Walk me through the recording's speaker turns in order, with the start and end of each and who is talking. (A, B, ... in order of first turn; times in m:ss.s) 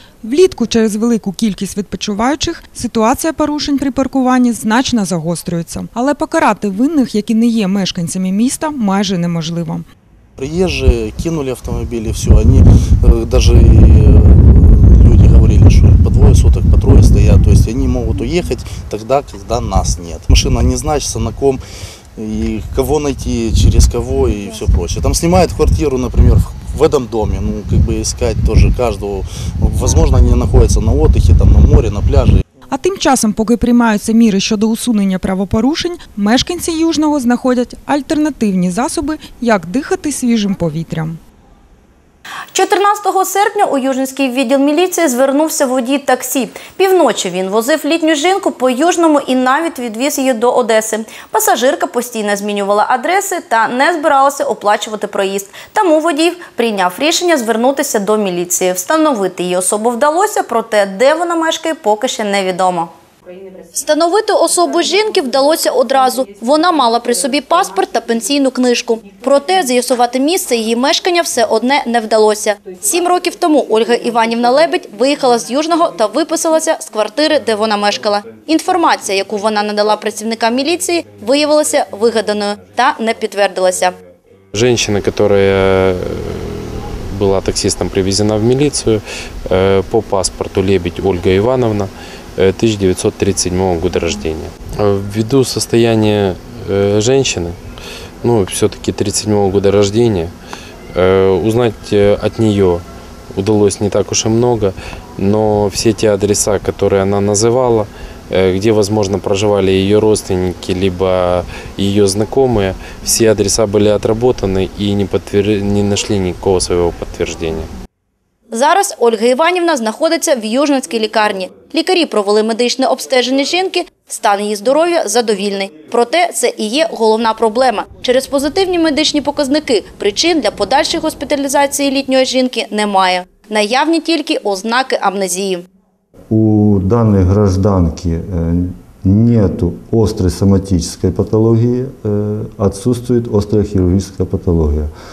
0:00.2-0:09.8 A
0:10.4-0:21.6 B
0:22.2-0:32.4 B
0:32.7-0:41.2 A
0:42.5-1:02.9 C
1:03.7-1:24.0 C
1:24.5-1:37.6 D
1:38.2-1:40.3 D
1:40.9-1:57.7 D
1:58.5-2:15.6 C
2:16.3-2:24.9 E